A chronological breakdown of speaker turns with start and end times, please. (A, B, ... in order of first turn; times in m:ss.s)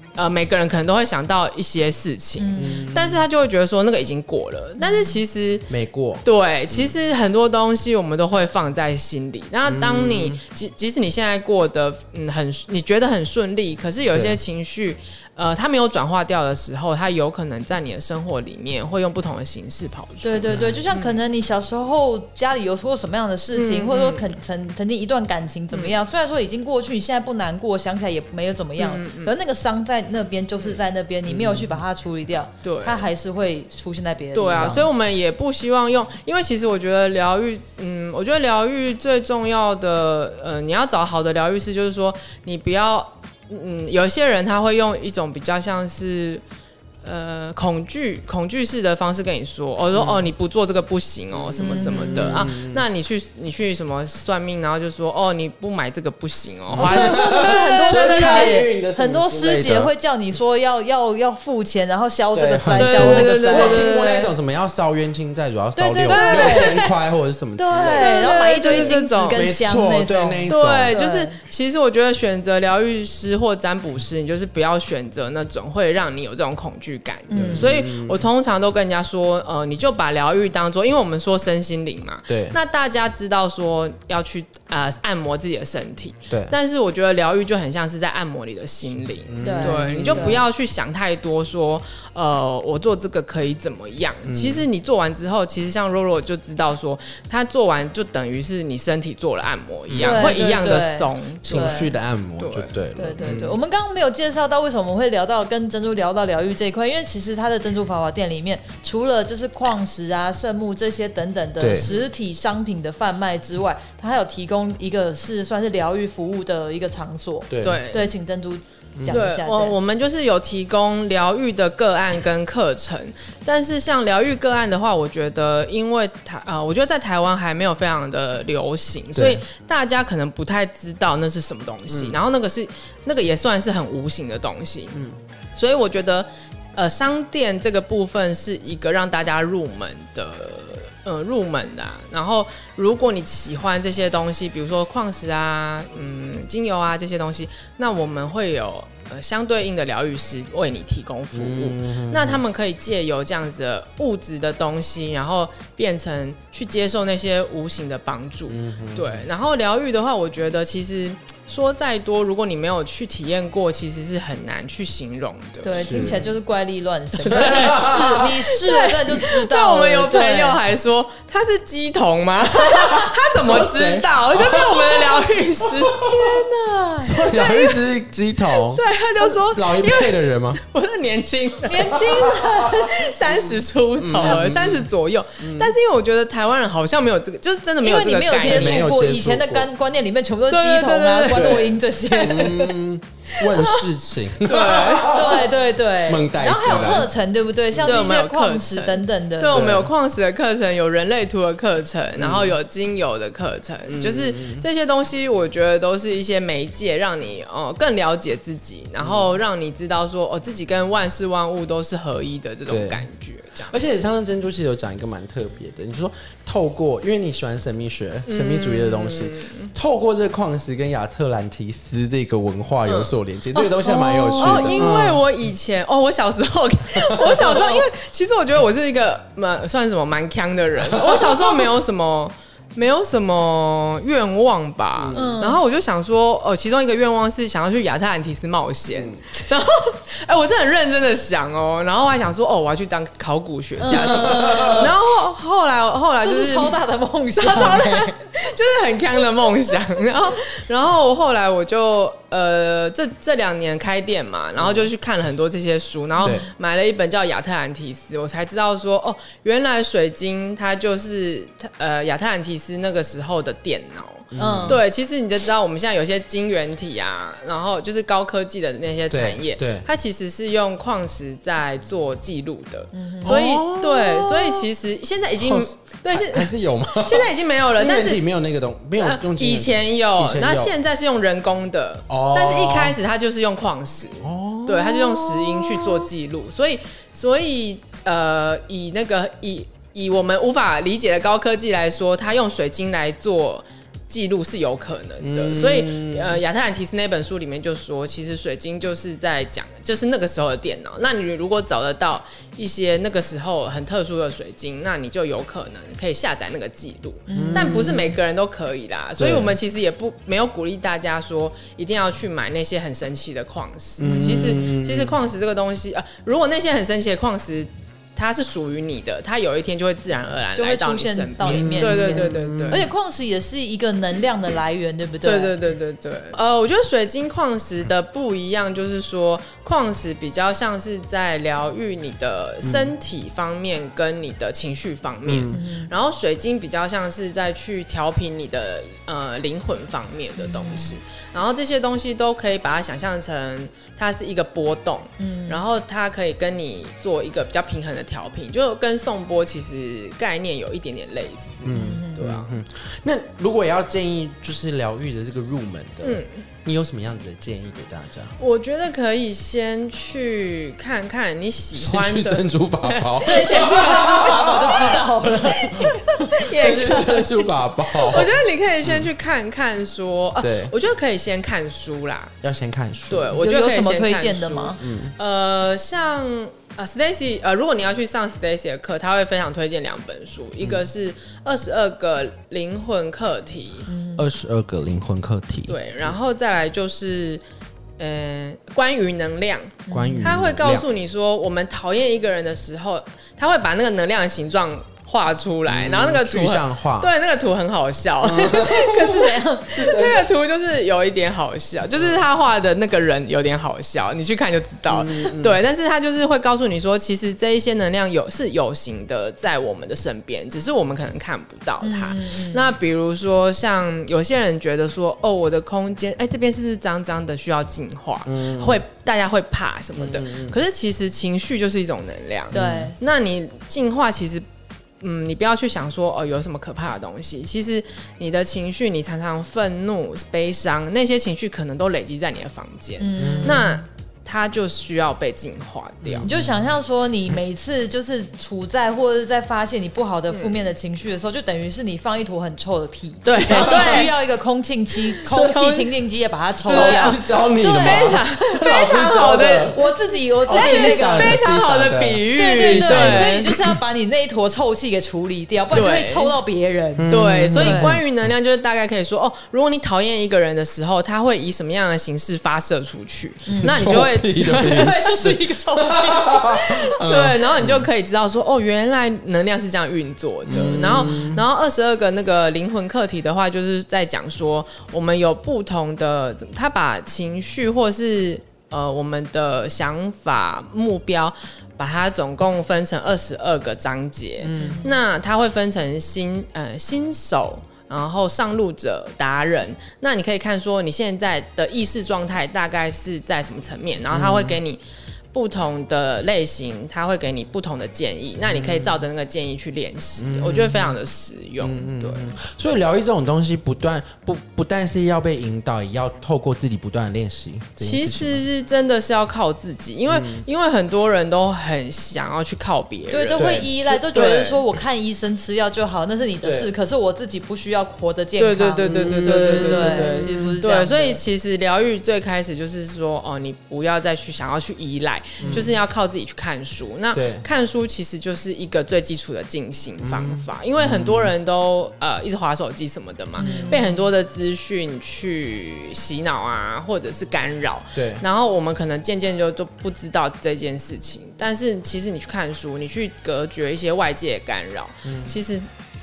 0:00.2-0:05.7 A
0:02.4-0:02.9 B
0:02.6-0:03.2 C
0:04.8-0:05.2 B
0:05.7-0:06.9 C
0:06.2-0:21.2 A
0:09.6-0:10.4 C
0:14.1-0:14.4 C
0:20.2-0:34.9 B
0:20.5-0:20.8 C
0:23.5-0:24.3 A
0:28.8-0:29.3 A
0:31.3-0:31.8 C
0:32.6-0:33.1 A
0:34.3-0:46.4 A
0:34.6-0:34.8 C
0:47.0-0:58.6 A
0:49.9-0:50.3 C
0:51.3-0:52.8 C
0:51.6-0:52.5 B
0:56.7-0:59.9 C
0:56.8-1:04.3 B
1:02.3-1:11.0 C
1:02.8-1:04.0 A
1:05.8-1:06.8 B
1:06.1-1:06.9 A
1:07.6-1:11.4 B
1:07.7-1:09.4 A
1:10.5-1:43.5 A
1:17.3-1:17.8 B
1:17.3-1:18.3 C
1:22.3-1:22.6 C
1:26.3-1:26.6 C
1:29.2-1:30.4 C
1:29.4-1:30.4 B
1:34.2-1:34.7 C
1:39.9-1:40.4 C
1:40.0-1:41.9 B
1:41.4-1:43.6 C
1:43.0-1:59.8 B
1:51.6-1:51.9 C
1:57.5-1:57.8 C
1:57.6-1:58.1 A
1:59.0-1:59.2 C
1:59.1-2:15.0 A
2:09.2-2:09.4 C
2:11.9-2:12.2 C
2:15.6-2:46.2 A
2:31.3-2:32.4 C
2:38.5-2:39.3 C
2:45.6-2:50.6 B
2:45.8-2:46.3 C
2:47.2-2:56.4 A
2:47.3-2:48.3 C
2:52.7-2:56.4 C
2:56.0-2:57.2 B
2:57.0-3:00.6 C
2:57.1-2:57.8 A
2:58.5-3:08.9 A
3:01.6-3:03.0 B
3:01.9-3:05.7 C
3:07.8-3:12.7 B
3:08.4-3:09.7 C
3:10.5-3:12.7 A
3:11.3-3:15.5 C
3:13.3-3:15.5 A
3:14.9-3:19.7 B
3:16.0-3:17.1 C
3:17.7-3:18.1 C
3:17.8-3:33.8 A
3:19.5-3:19.9 C
3:22.2-3:22.6 C
3:23.9-3:24.7 C
3:29.0-3:29.3 C
3:32.7-3:33.1 C
3:33.7-3:45.2 C
3:38.3-3:39.7 A
3:42.9-4:06.8 A
3:43.8-3:44.9 B
3:47.0-3:47.8 C
3:50.8-3:51.7 C
3:55.0-3:55.4 C
3:55.1-3:55.6 B
3:58.9-3:59.2 C
4:03.8-4:04.9 B
4:03.9-4:04.9 C
4:06.2-4:08.2 B
4:07.4-4:38.2 A
4:14.6-4:14.9 C
4:16.2-4:16.5 C
4:24.3-4:24.8 C
4:24.4-4:24.8 B
4:29.1-4:29.9 C
4:32.9-4:33.4 B
4:33.2-4:34.7 C
4:35.4-4:40.8 C
4:39.0-5:22.9 A
4:42.1-4:43.0 C
4:44.2-4:46.1 C
4:55.2-4:56.4 C
5:07.3-5:08.1 B
5:07.3-5:08.1 C
5:09.2-5:09.6 C
5:14.0-5:15.2 C
5:14.1-5:14.5 B
5:20.6-5:25.6 B
5:21.4-5:22.9 C
5:25.2-5:52.5 A
5:32.6-5:32.9 C
5:35.2-5:35.6 C
5:35.5-5:35.9 B
5:40.4-5:41.0 B
5:45.2-5:45.6 B
5:51.6-5:58.3 C
5:51.7-5:52.3 B
5:56.0-5:56.4 A
5:58.4-6:04.9 A
6:01.7-6:05.1 C
6:03.2-6:06.3 B
6:05.6-6:12.4 A
6:05.6-6:09.1 C
6:10.4-6:10.7 C
6:12.4-6:13.4 C
6:13.1-6:23.9 A
6:13.4-6:14.8 B
6:14.8-6:15.2 C
6:20.6-6:20.9 C
6:23.9-6:24.2 B
6:24.2-6:26.1 C
6:25.7-6:27.4 A
6:28.0-7:04.4 A
6:29.9-6:30.3 B
6:29.9-6:30.9 C
6:35.7-6:37.1 C
6:38.2-6:39.2 C
6:38.6-6:40.0 B
6:39.7-6:40.3 C
6:44.9-6:45.6 C
6:51.8-6:52.7 B
6:58.3-6:58.8 C
7:00.0-7:00.6 C
7:02.5-7:02.9 C
7:02.5-7:03.0 B
7:05.0-7:16.3 A
7:13.0-7:13.8 B
7:13.2-7:13.6 C
7:16.0-7:16.6 C
7:16.2-7:28.3 B
7:20.3-7:20.6 A
7:23.3-7:24.1 A
7:23.4-7:24.1 C
7:25.2-7:25.8 C
7:25.3-7:25.8 A
7:26.6-7:29.8 C
7:26.6-7:29.8 A
7:29.6-7:31.4 B
7:30.5-7:33.8 C
7:30.5-7:33.6 A
7:32.4-7:38.0 B
7:35.7-7:36.4 A
7:37.0-7:38.0 C
7:37.1-7:45.2 A
7:43.5-7:46.9 B
7:43.6-7:47.9 C
7:47.0-8:14.8 A
7:50.5-7:51.4 C
7:50.5-7:50.9 B
8:04.4-8:04.8 C
8:04.6-8:04.9 B
8:14.1-8:14.6 C
8:15.3-8:22.3 A
8:18.4-8:19.0 C
8:20.2-8:21.0 C
8:21.6-8:28.4 C
8:27.8-8:34.6 A
8:30.1-8:30.4 C
8:33.1-8:41.2 B
8:33.4-8:34.3 C
8:36.4-8:36.7 C
8:38.4-9:05.7 A
8:38.8-8:40.6 C
8:45.4-8:45.7 C
8:45.4-8:45.7 B
8:47.1-8:47.4 C
8:50.0-8:51.3 C
8:53.4-8:53.9 B
8:53.4-8:53.8 C
8:58.0-8:58.2 C
9:05.0-9:05.4 C